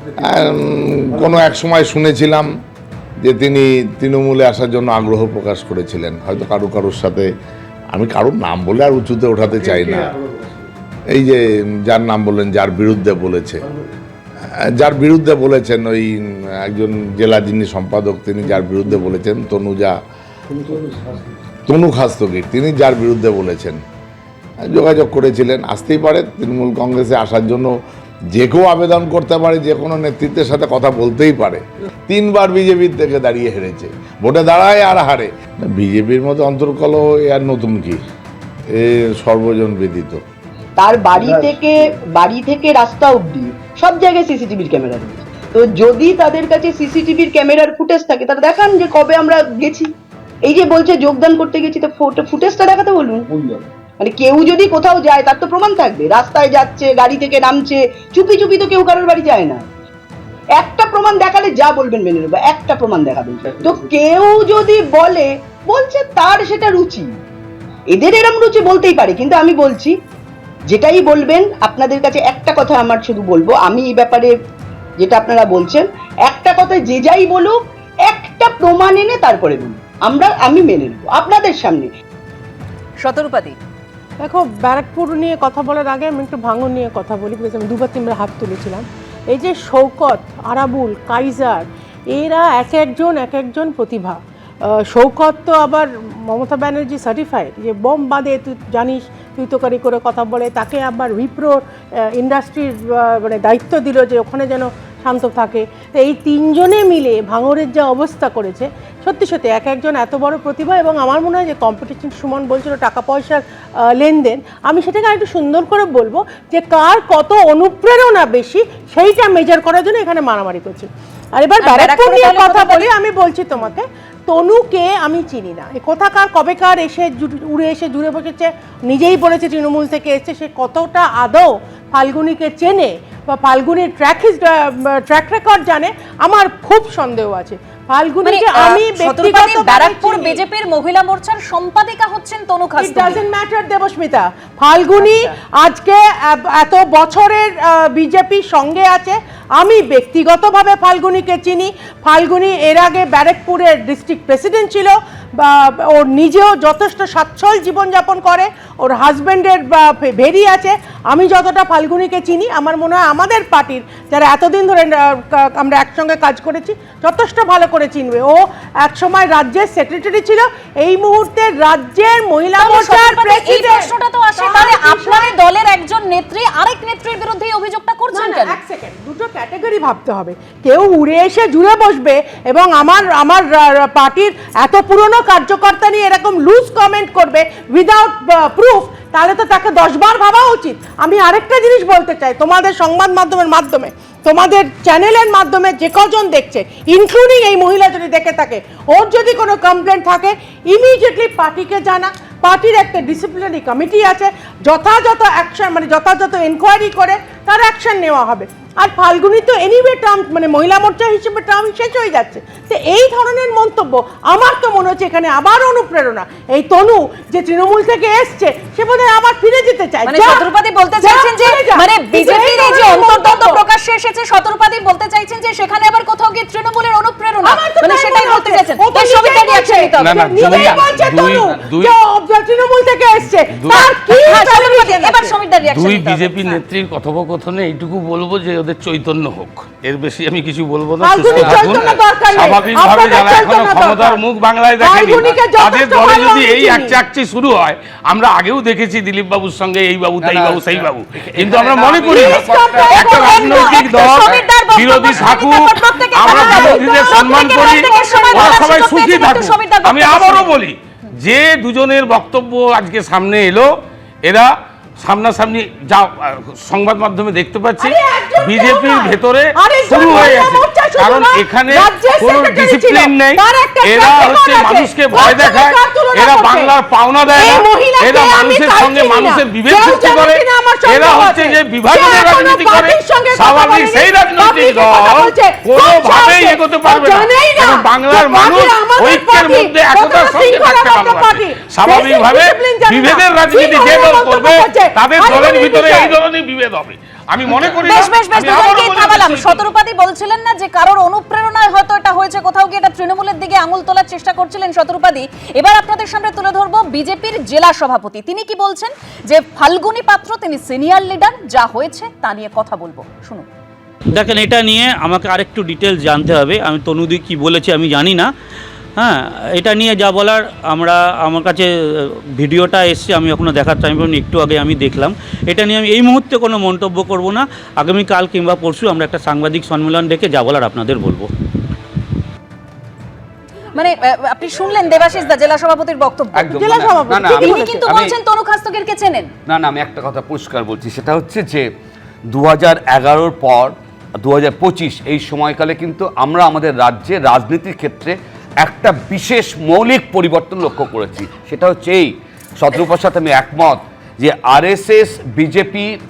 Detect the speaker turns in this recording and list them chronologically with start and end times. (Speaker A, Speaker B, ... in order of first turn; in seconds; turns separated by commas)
Speaker A: 0.2-2.5, Speaker A: 3.2-7.3, Speaker A: 7.9-10.2, Speaker A: 11.1-13.7, Speaker A: 14.8-19.9, Speaker A: 20.5-21.1, Speaker A: 21.7-23.8, Speaker A: 24.7-27.7, Speaker A: 28.3-38.0, Speaker A: 38.7-40.2, Speaker B: 40.8-49.9, Speaker B: 50.4-53.3, Speaker B: 54.0-59.6, Speaker B: 60.6-67.1, Speaker B: 67.9-69.9, Speaker B: 70.7-74.3, Speaker B: 75.0-81.9, Speaker C: 83.0-83.5, Speaker D: 84.2-140.4, Speaker C: 121.6-122.9, Speaker C: 138.2-143.2, Speaker D: 142.8-175.3, Speaker C: 145.0-145.3, Speaker C: 172.6-178.6, Speaker D: 178.1-220.4, Speaker C: 220.1-230.8, Speaker D: 221.0-223.6, Speaker D: 227.4-235.3, Speaker E: 230.0-231.9, Speaker E: 233.6-233.8, Speaker C: 233.7-236.6, Speaker E: 235.7-252.4, Speaker D: 241.0-244.2, Speaker F: 241.2-242.0, Speaker D: 244.8-247.0, Speaker F: 250.2-253.7, Speaker D: 252.0-253.5, Speaker C: 252.9-260.5, Speaker E: 253.1-299.6, Speaker D: 256.2-256.7, Speaker D: 257.7-258.7, Speaker D: 267.8-296.2, Speaker C: 297.5-313.4, Speaker G: 314.1-318.3, Speaker G: 319.0-331.3, Speaker C: 333.8-336.5, Speaker F: 336.4-338.1, Speaker D: 336.4-337.9, Speaker C: 337.4-339.3, Speaker F: 339.5-341.6, Speaker F: 342.3-355.9